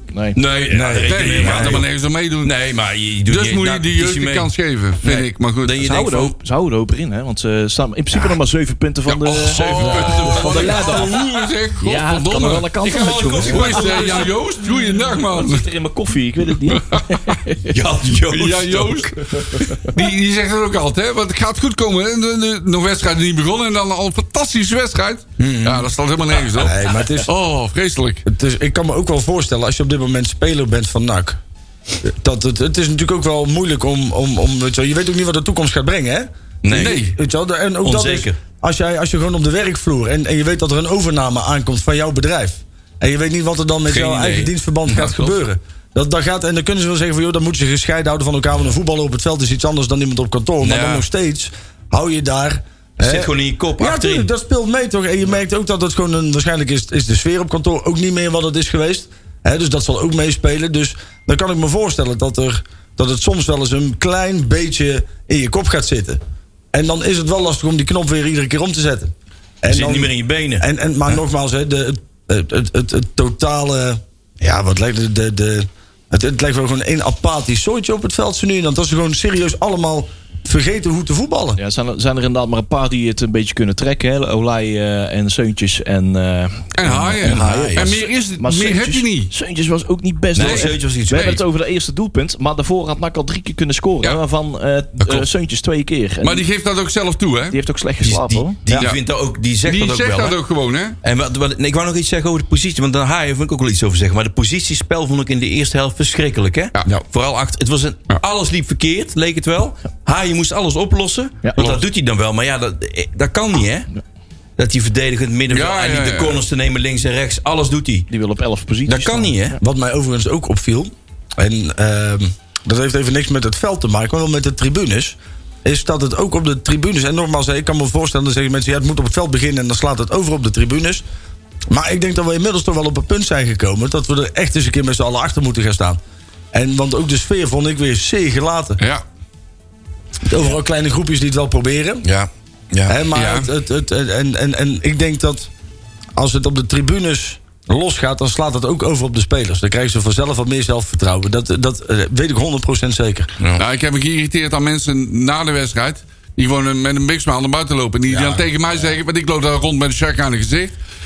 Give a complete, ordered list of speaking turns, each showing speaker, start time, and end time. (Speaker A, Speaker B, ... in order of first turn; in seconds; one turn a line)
Speaker A: 0.1-0.4
Speaker B: 0.3-1.9
Speaker C: 0.7-1.9
Speaker D: 1.1-2.5
Speaker B: 2.4-4.5
Speaker D: 3.2-5.8
Speaker B: 5.0-6.3
Speaker A: 5.8-9.6
Speaker D: 9.1-12.7
Speaker B: 9.4-11.3
Speaker C: 9.8-10.4
Speaker A: 10.3-11.2
Speaker A: 11.8-17.7
Speaker B: 12.8-14.3
Speaker D: 13.4-15.7
Speaker D: 16.6-17.4
Speaker B: 17.7-19.8
Speaker D: 18.2-28.2
Speaker C: 25.4-25.9
Speaker C: 26.5-27.3
Speaker C: 28.2-31.4
Speaker C: 32.0-66.2
Speaker B: 36.6-37.1
Speaker D: 36.7-37.1
Speaker B: 37.8-38.4
Speaker B: 43.9-45.4
Speaker B: 50.6-51.0
Speaker B: 53.0-54.3
Speaker C: 66.7-81.6
Speaker B: 69.7-70.6
Speaker A: 81.6-96.4
Speaker D: 86.7-89.3
Speaker B: 87.2-87.8
Speaker C: 87.4-87.7
Speaker B: 90.3-91.4
Speaker D: 90.4-90.7
Speaker D: 96.2-97.6
Speaker A: 97.5-98.6
Speaker B: 98.0-100.3
Speaker D: 98.8-99.0
Speaker D: 99.6-101.0
Speaker B: 101.0-113.9
Speaker D: 111.6-111.8
Speaker B: 114.6-118.1
Speaker D: 115.5-116.4
Speaker A: 118.1-119.6
Speaker B: 118.9-119.6
Speaker C: 119.6-131.0
Speaker C: 131.7-136.0
Speaker C: 136.5-138.8
Speaker C: 140.2-142.1
Speaker B: 142.0-143.0
Speaker C: 142.9-145.5
Speaker D: 143.1-143.5
Speaker C: 146.2-153.3
Speaker D: 153.6-160.7
Speaker C: 158.1-158.5